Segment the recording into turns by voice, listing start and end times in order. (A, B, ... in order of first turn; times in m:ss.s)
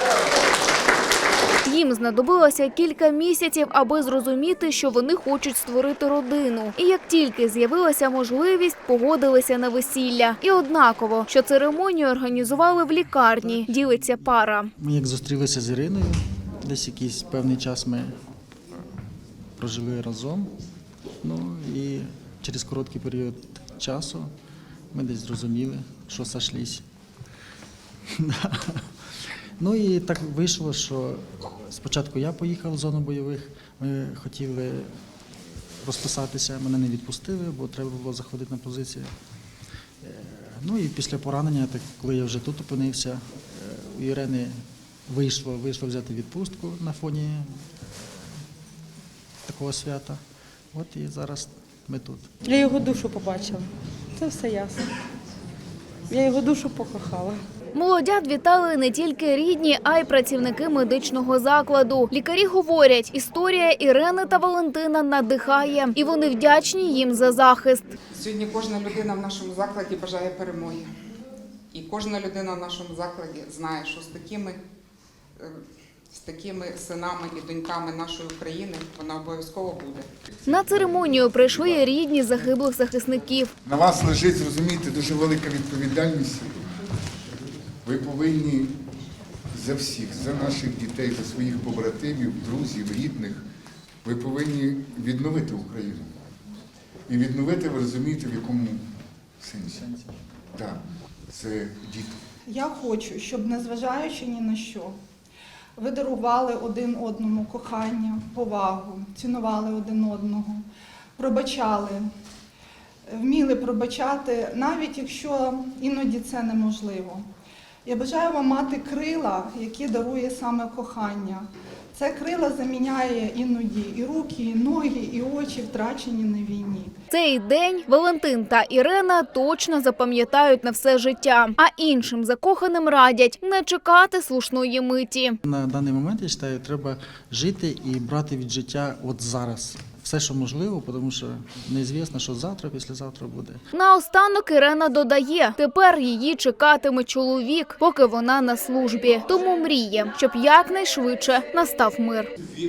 0:01.6-0:14.7 A
0:14.8-0:18.2 B
0:19.6-0:20.5 B
0:21.2-0:24.3 B
0:24.9-0:26.8 B
0:28.1-0:28.9 B
0:29.6-0:34.9 B
0:35.8-0:39.1 B
0:40.0-0:44.6 B
0:45.1-0:48.3 B
0:49.5-0:50.2 B
0:50.7-0:52.3 B
0:52.4-0:54.9 C
0:56.1-0:57.4 C
0:57.7-1:07.9 A
1:08.1-1:10.9 D
1:11.7-1:14.6 D
1:16.1-1:20.1 D
1:20.5-1:23.5 A
1:23.6-1:26.7 E
1:27.8-1:28.8 E
1:29.5-1:33.4 E
1:34.0-1:36.1 E
1:37.1-1:39.9 E
1:40.5-1:42.2 E
1:42.5-1:45.0 F
1:45.8-1:50.6 F
1:51.2-1:52.1 F
1:53.1-1:57.3 F
1:57.8-2:07.0 F
2:07.1-2:15.4 A
2:15.4-2:23.6 B
2:23.7-2:32.3 A